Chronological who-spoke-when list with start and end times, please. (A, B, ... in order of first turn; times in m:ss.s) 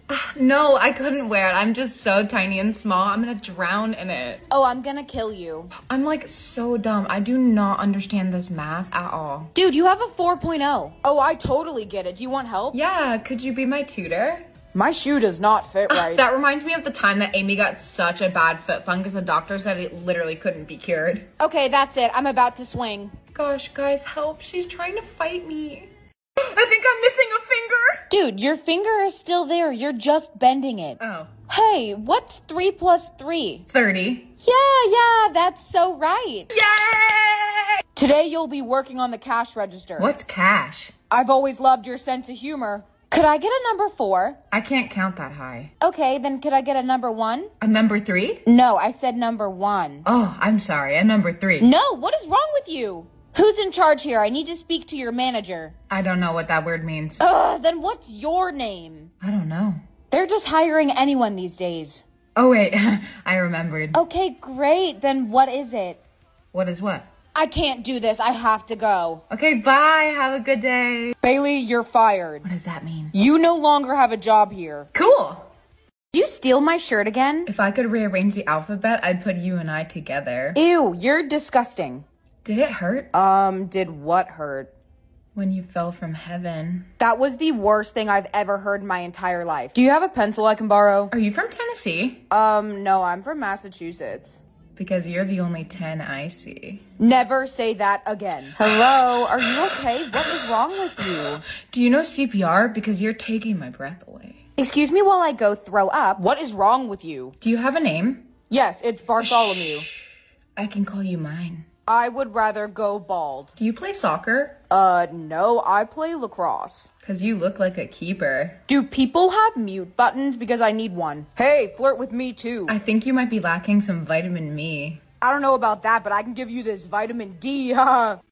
0:00.1-0:04.4 A
0:04.5-0:05.7 B
0:05.8-0:09.5 A
0:09.6-0:12.8 B
0:12.7-0:14.4 A
0:14.7-0:16.2 B
0:15.9-0:21.3 A
0:21.4-0:23.2 B
0:23.4-0:28.1 A
0:28.1-0:33.7 B
0:31.0-0:31.3 A
0:33.7-0:34.3 A
0:34.4-0:36.5 B
0:36.5-0:37.8 A
0:38.0-0:40.1 B
0:40.0-0:40.9 A
0:41.1-0:44.4 B
0:44.5-0:45.7 A
0:45.8-0:47.5 B
0:47.6-0:48.4 A
0:48.5-0:50.1 B
0:50.0-0:51.7 A
0:51.6-0:55.8 B
0:55.9-0:57.2 A
0:57.2-0:59.1 B
0:59.2-0:59.8 A
1:00.1-1:02.0 B
1:02.4-1:04.0 A
1:03.9-1:06.0 B
1:06.5-1:07.1 A
1:07.4-1:09.2 B
1:09.3-1:11.2 A
1:11.2-1:12.5 B
1:12.4-1:13.1 A
1:13.1-1:14.9 B
1:14.9-1:15.5 A
1:16.1-1:17.5 B
1:17.5-1:20.6 A
1:20.6-1:22.0 B
1:22.4-1:23.1 A
1:23.1-1:24.7 B
1:25.4-1:26.9 A
1:27.0-1:31.1 B
1:31.1-1:32.2 A
1:32.3-1:34.4 B
1:34.8-1:36.8 A
1:37.0-1:41.4 B
1:38.6-1:40.4 A
1:41.1-1:44.4 A
1:44.6-1:47.4 B
1:47.4-1:48.3 A
1:48.5-1:49.9 B
1:49.2-1:50.0 A
1:50.6-1:51.7 A
1:51.9-1:53.5 B
1:53.6-1:54.6 A
1:54.7-1:56.9 B
1:57.0-1:58.6 A
1:58.7-2:02.8 B
2:02.7-2:05.0 A
2:05.2-2:08.2 B